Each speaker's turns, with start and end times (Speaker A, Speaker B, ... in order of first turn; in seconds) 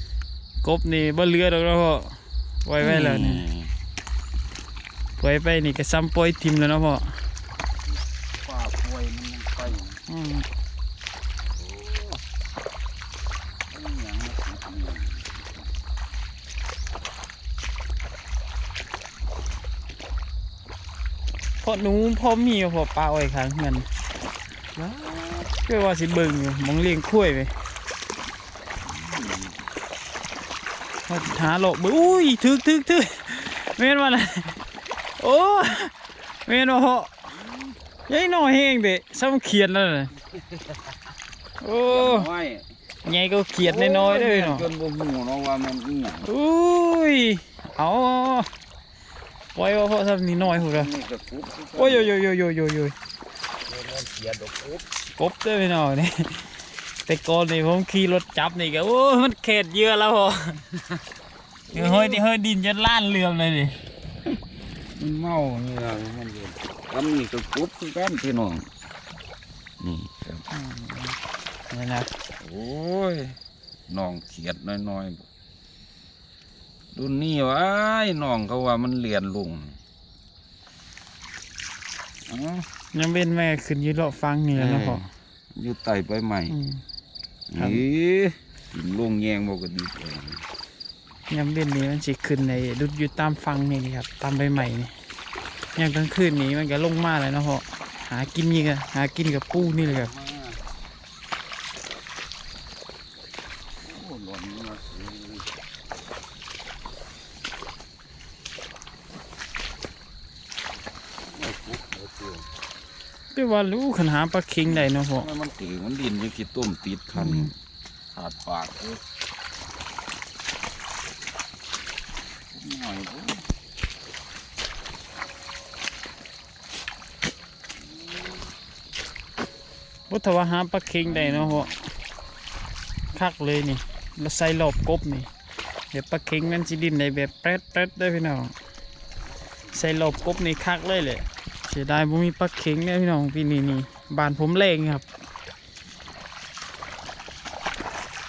Speaker A: 0.6-3.4, 5.2-7.2, 10.1-10.5, 21.6-23.9, 24.8-27.5, 31.1-34.6, 35.2-35.9, 36.5-37.1, 38.1-40.1, 41.6-42.3, 43.0-44.7, 46.2-48.5, 49.5-50.9, 51.8-52.9, 55.1-60.6, 61.7-63.8, 70.5-72.1, 82.9-85.1, 86.5-86.8, 87.5-87.8, 91.3-95.0, 95.7-100.1, 113.3-115.3, 117.2-117.5, 130.1-131.7, 133.1-135.3, 135.9-138.5, 139.7-145.1
Speaker B: 2.8-3.7, 8.3-10.0, 11.5-12.2, 13.7-15.8, 28.8-29.6, 37.4-37.8, 40.1-41.0, 41.9-42.7, 43.6-46.3, 50.4-52.1, 53.6-54.9, 61.7-62.2, 64.9-68.7, 69.8-70.4, 72.4-73.4, 73.9-75.2, 76.9-79.8, 82.2-82.7, 84.5-86.5, 87.5-90.4, 99.5-100.6, 103.8-105.5, 111.2-112.5, 114.6-117.5, 118.1-119.0, 122.5-123.5, 127.8-128.5, 131.0-131.8, 139.3-140.6